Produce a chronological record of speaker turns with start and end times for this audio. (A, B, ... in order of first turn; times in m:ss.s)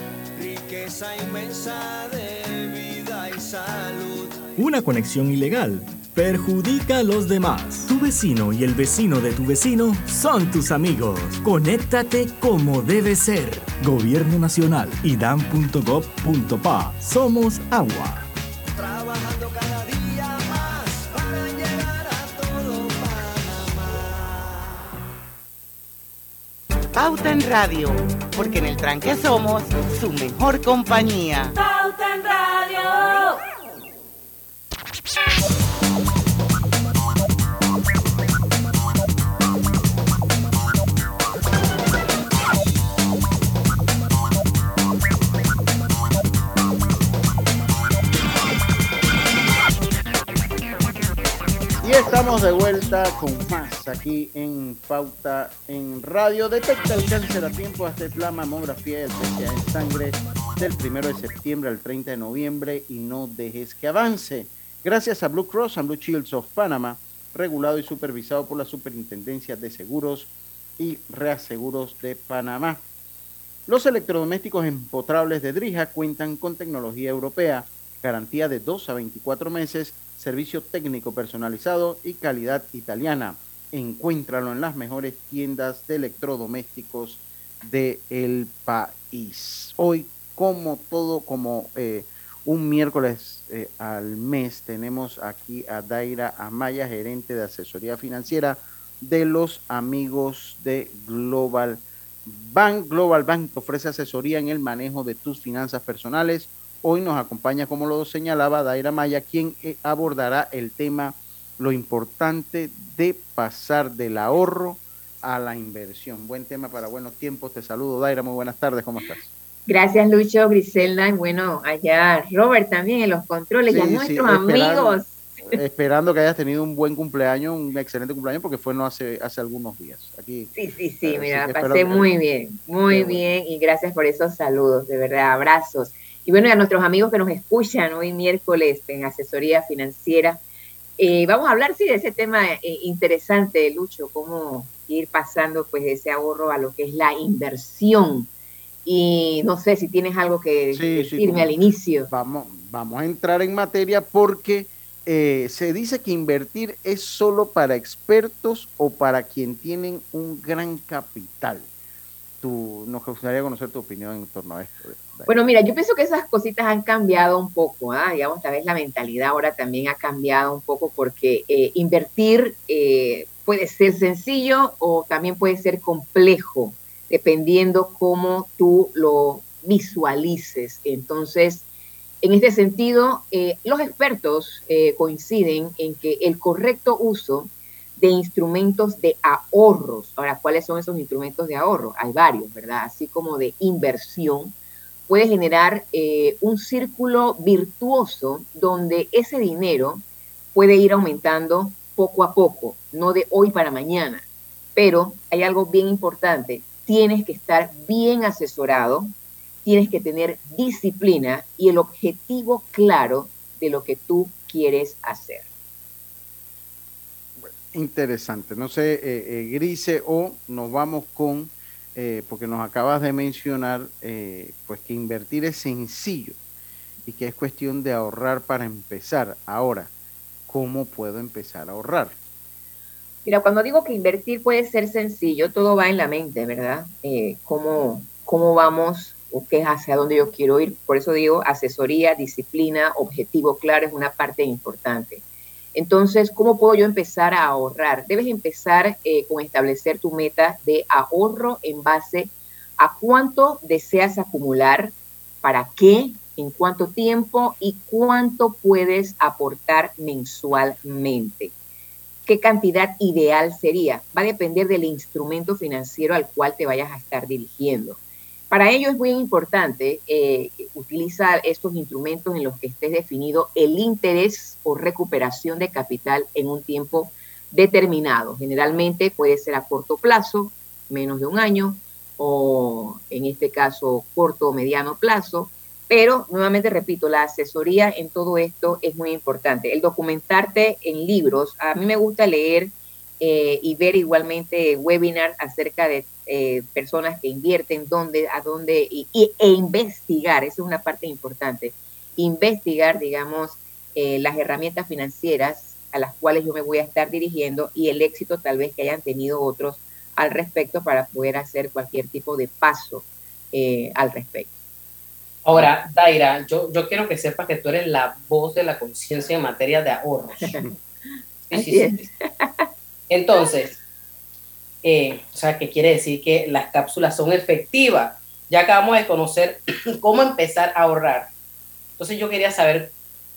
0:00.3-0:04.5 A
0:04.6-0:18.3 B
0:18.7-0:24.6 A
0:26.9-0:31.5 C
0:51.8-1:12.8 D
1:13.7-1:59.3 D
1:59.7-2:05.2 E
2:03.7-2:12.1 D
2:10.6-2:20.4 E
2:12.9-2:13.2 D
2:21.0-2:28.3 E
2:28.8-2:32.1 E
2:30.7-2:31.5 D
2:32.1-2:41.7 D
2:42.4-2:45.3 D
2:45.3-3:01.6 E
3:02.2-3:14.5 E
3:15.1-3:20.0 E
3:20.5-3:29.1 E
3:29.6-3:35.4 E
3:37.4-3:46.4 D
3:47.0-3:49.9 D
3:50.5-3:52.2 D
3:53.2-4:05.2 E
4:05.7-4:21.5 E
4:22.2-4:28.0 E
4:28.5-5:14.6 E
5:15.4-5:20.5 F
5:21.5-5:22.0 F
5:21.5-5:22.7 E
5:23.1-5:23.8 F
5:24.8-5:31.3 F
5:32.0-5:32.9 F